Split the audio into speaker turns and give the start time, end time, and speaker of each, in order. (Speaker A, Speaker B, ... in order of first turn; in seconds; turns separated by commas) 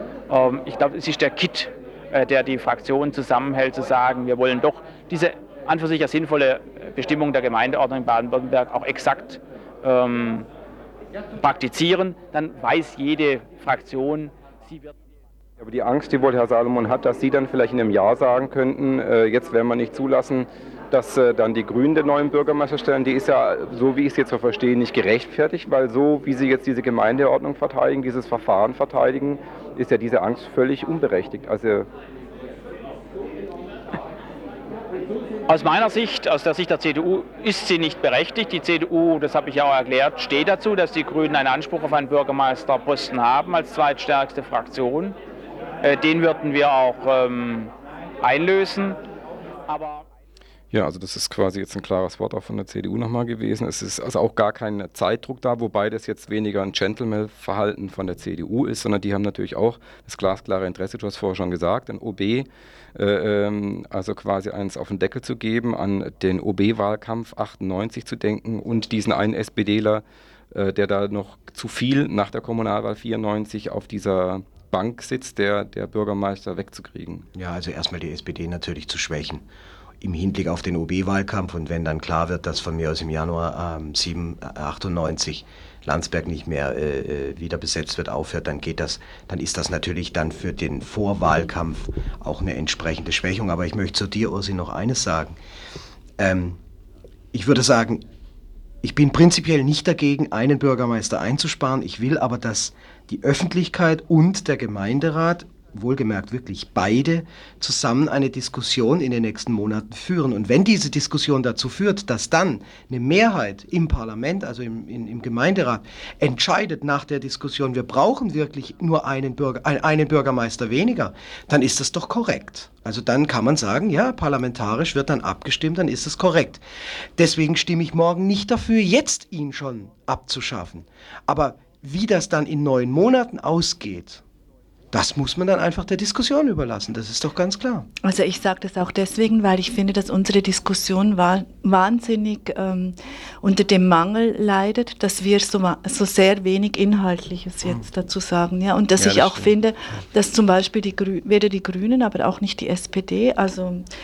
Speaker A: 0.3-10.5, Speaker A: 11.4-14.9, Speaker B: 15.6-31.9, Speaker A: 35.5-45.2, Speaker A: 45.8-49.0, Speaker A: 49.7-50.1, Speaker B: 50.7-77.3, Speaker C: 77.3-79.5, Speaker C: 80.0-95.3, Speaker C: 96.2-96.6, Speaker C: 97.3-98.0, Speaker C: 98.8-126.6, Speaker C: 127.2-134.2, Speaker C: 134.9-137.9, Speaker D: 138.0-153.8, Speaker C: 149.0-149.5